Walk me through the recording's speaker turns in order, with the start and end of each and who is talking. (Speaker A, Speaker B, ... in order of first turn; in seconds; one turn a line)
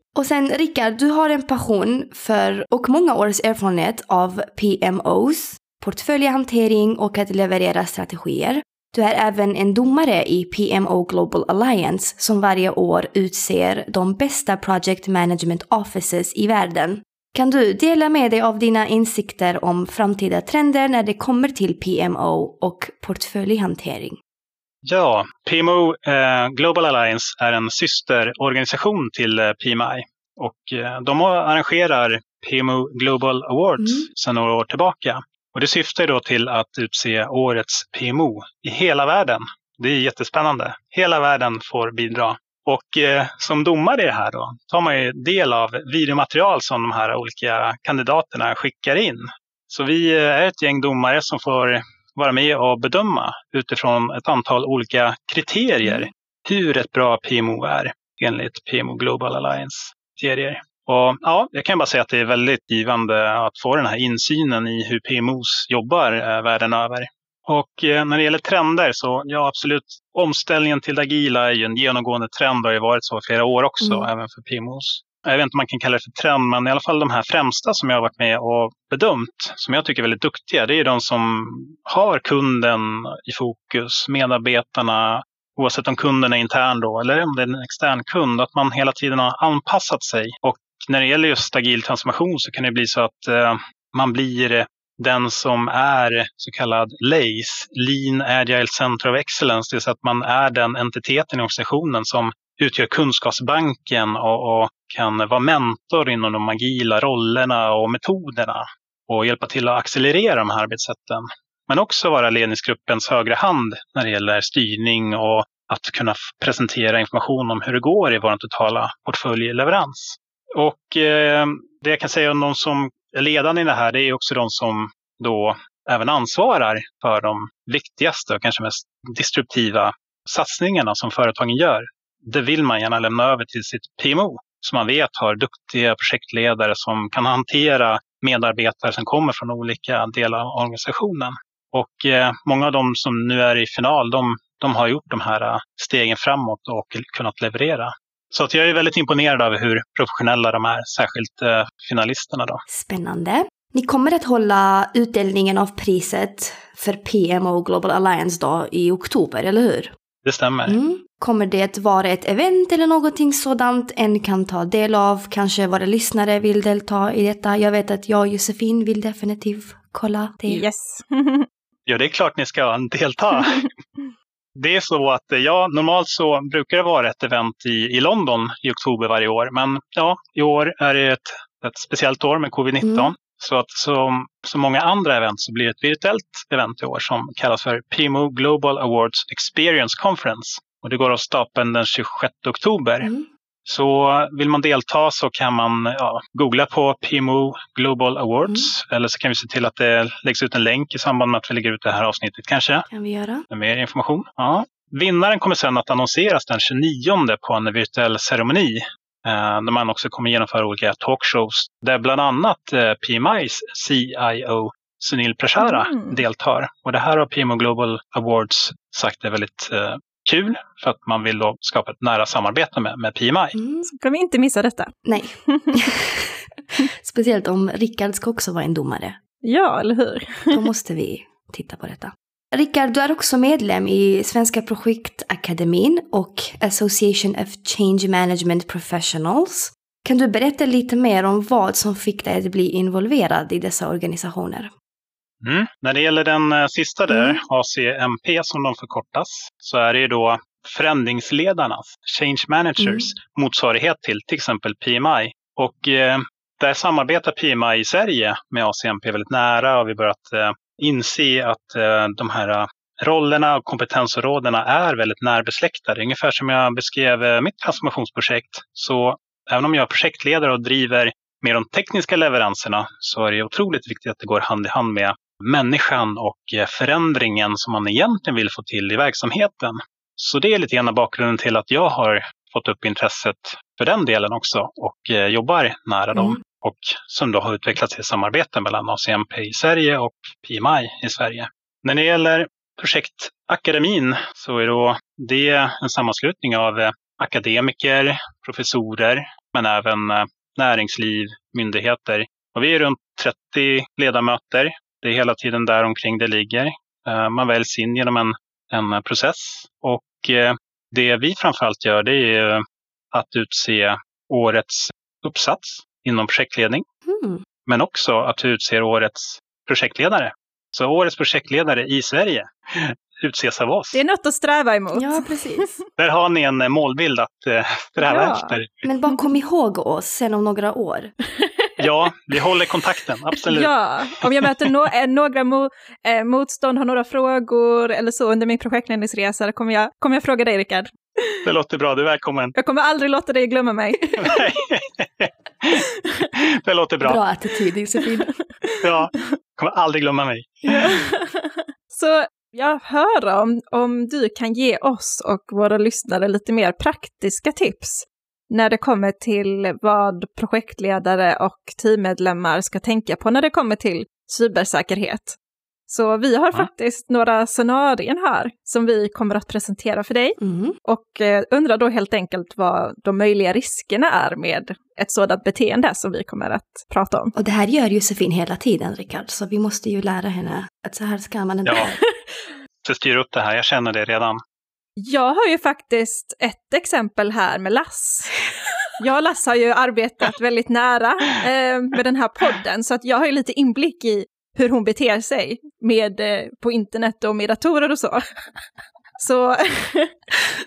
Speaker A: 0.1-24.2
Speaker B: 24.8-152.6
Speaker A: 33.8-34.1
Speaker A: 73.8-74.1
Speaker A: 152.7-159.9
Speaker B: 160.2-160.8
Speaker A: 160.7-170.6
Speaker C: 170.5-171.4
Speaker B: 171.9-173.7
Speaker B: 174.6-193.1
Speaker A: 182.8-183.1
Speaker A: 193.0-193.3
Speaker B: 193.7-202.8
Speaker A: 202.9-203.4
Speaker B: 203.5-223.6
Speaker C: 215.6-216.2
Speaker A: 223.6-223.9
Speaker C: 223.8-224.9
Speaker A: 225.1-229.2
Speaker C: 225.4-225.9
Speaker C: 229.4-230.6
Speaker A: 230.5-244.7
Speaker B: 245.4-316.8
Speaker A: 247.1-247.4
Speaker A: 252.8-253.1
Speaker A: 286.1-286.4
Speaker A: 317.1-317.4
Speaker B: 317.6-324.0
Speaker C: 323.9-325.8
Speaker A: 324.9-325.7
Speaker B: 326.0-328.7
Speaker C: 328.0-329.2
Speaker A: 328.8-331.1
Speaker C: 331.3-331.8
Speaker B: 331.8-334.4
Speaker C: 333.5-341.4
Speaker B: 341.4-342.5
Speaker C: 342.5-344.4
Speaker B: 344.2-345.8
Speaker C: 345.7-346.3
Speaker B: 346.4-347.2
Speaker A: 347.0-348.3
Speaker C: 348.4-349.3
Speaker B: 348.8-351.0
Speaker C: 350.6-365.4
Speaker C: 365.9-377.3
Speaker A: 370.4-370.8
Speaker A: 377.3-381.9
Speaker B: 381.6-381.9
Speaker B: 382.8-384.4
Speaker C: 385.0-388.3
Speaker C: 389.0-398.2
Speaker C: 399.2-400.2